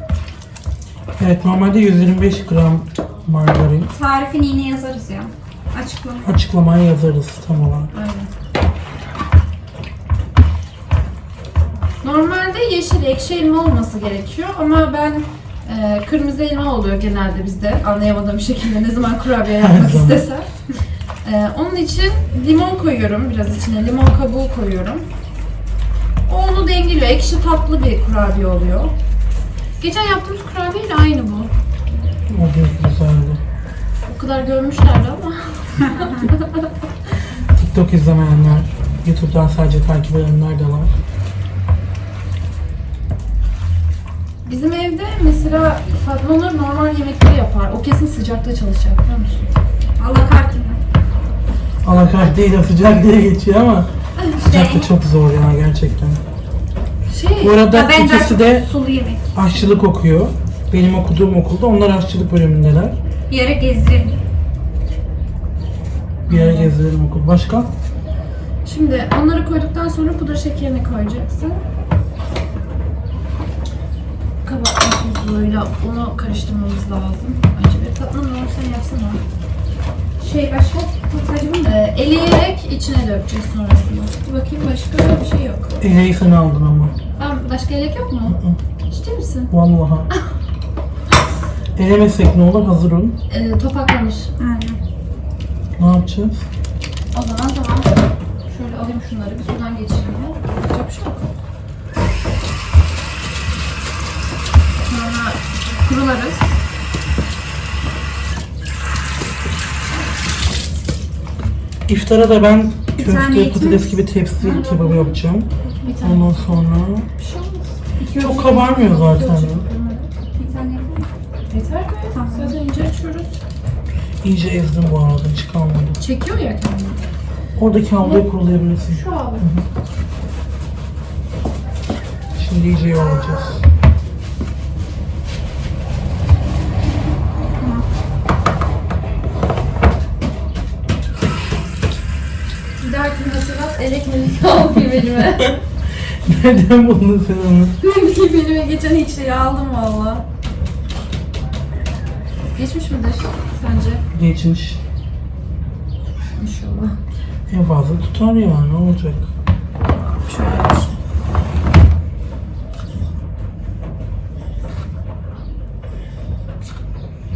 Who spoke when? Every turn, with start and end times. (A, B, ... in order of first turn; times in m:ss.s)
0:01.2-0:03.9 A
0:03.9-0:06.3 B
0:06.2-0:07.9 A
0:07.9-0:08.3 C
0:12.0-0:20.5 C
0:19.5-0:20.3 A
0:21.2-0:25.1 C
0:26.3-0:28.9 C
0:29.8-0:31.5 C
0:32.3-0:33.4 A
0:34.1-0:36.7 C
0:37.4-0:41.0 A
0:44.4-0:49.5 C
0:50.0-0:50.8 B
0:51.8-0:56.2 A
0:54.2-0:54.4 C
0:54.4-0:54.9 B
0:57.1-0:57.6 C
0:57.4-0:58.7 A
0:57.6-0:59.3 B
0:59.3-1:03.0 A
1:03.3-1:04.2 B
1:06.3-1:07.7 A
1:06.3-1:06.7 C
1:08.6-1:11.6 C
1:14.4-1:19.2 C
1:20.2-1:21.8 B
1:21.6-1:25.8 C
1:25.8-1:26.9 A
1:27.2-1:28.4 C
1:28.3-1:28.6 A
1:28.9-1:29.5 C
1:29.5-1:30.1 A
1:31.8-1:33.2 A
1:33.3-1:34.3 C
1:34.4-1:34.8 B
1:35.8-1:36.5 A
1:37.1-1:37.9 C
1:38.5-1:41.2 C
1:44.9-1:46.6 C
1:51.9-1:57.1 A
1:53.0-1:54.8 B
1:54.4-1:55.1 C
1:55.8-1:56.3 C
1:57.2-2:00.1 C
1:58.0-1:58.4 B
1:58.1-1:59.6 A
2:00.4-2:01.1 B
2:01.5-2:03.4 C
2:02.1-2:02.6 B
2:04.2-2:06.0 A
2:06.0-2:07.0 C
2:07.6-2:09.6 A
2:08.9-2:09.4 C
2:12.3-2:13.6 A
2:17.6-2:17.8 B
2:22.8-2:25.5 C
2:25.2-2:27.8 A
2:27.8-2:30.2 C
2:32.6-2:34.0 C
2:34.1-2:34.8 A
2:36.4-2:37.0 C
2:37.5-2:39.3 A
2:40.2-2:40.9 C